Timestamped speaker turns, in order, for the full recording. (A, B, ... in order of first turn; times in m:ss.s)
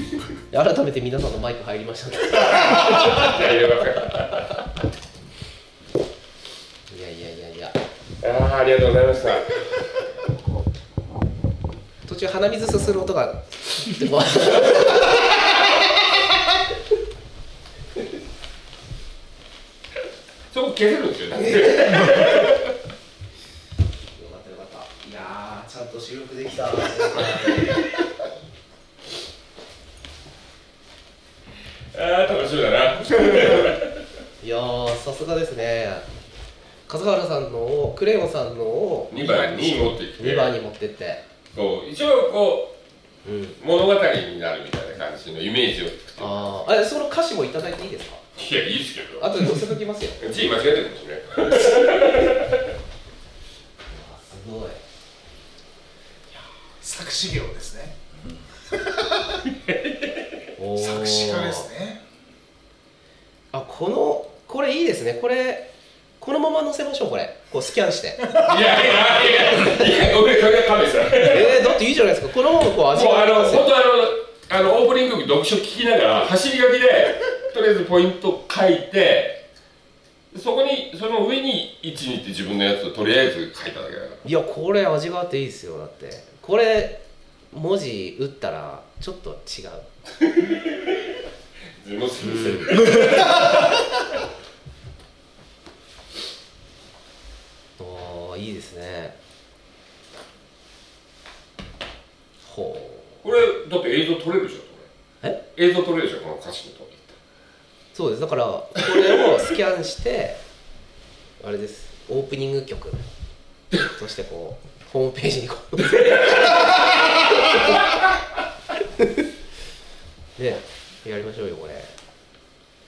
0:00.5-0:03.3 A
0:02.3-0:04.6 B
0:06.9-0:07.8 A
0:08.2-0:09.9 B
0:12.0-0:15.5 A
0:20.5-0:22.6 B
0:21.4-0:22.2 A
0:24.2-0:27.8 A
0:27.2-0:27.7 B
0:31.9-0:34.0 B
0:34.4-0:36.1 A
0:36.9-0:41.2 A
0:39.1-0:40.6 B
0:41.5-0:42.7 B
0:43.2-0:43.6 A
0:43.6-0:46.6 B
0:46.2-0:48.2 A
0:48.4-0:49.6 B
0:49.2-0:50.2 A
0:50.2-0:52.7 B
0:53.9-0:54.8 A
0:56.3-0:58.0 C
0:58.7-0:59.4 C
0:59.6-1:00.2 B
1:00.6-1:01.7 A
1:00.8-1:02.0 C
1:03.5-1:05.7 A
1:06.2-1:08.4 A
1:08.3-1:11.8 B
1:11.2-1:13.7 A
1:12.7-1:19.4 B
1:20.3-1:24.2 B
1:24.2-1:29.8 A
1:30.2-1:31.1 B
1:31.8-1:34.0 B
1:32.2-1:33.2 A
1:37.8-1:39.2 A
1:42.4-1:43.2 A
1:43.2-1:44.9 B
1:45.5-1:47.2 B
1:47.9-1:50.4 A
1:51.4-1:53.0 A
1:53.8-1:57.8 A
1:56.0-1:56.7 B
1:59.0-1:59.2 A
2:00.4-2:01.9 A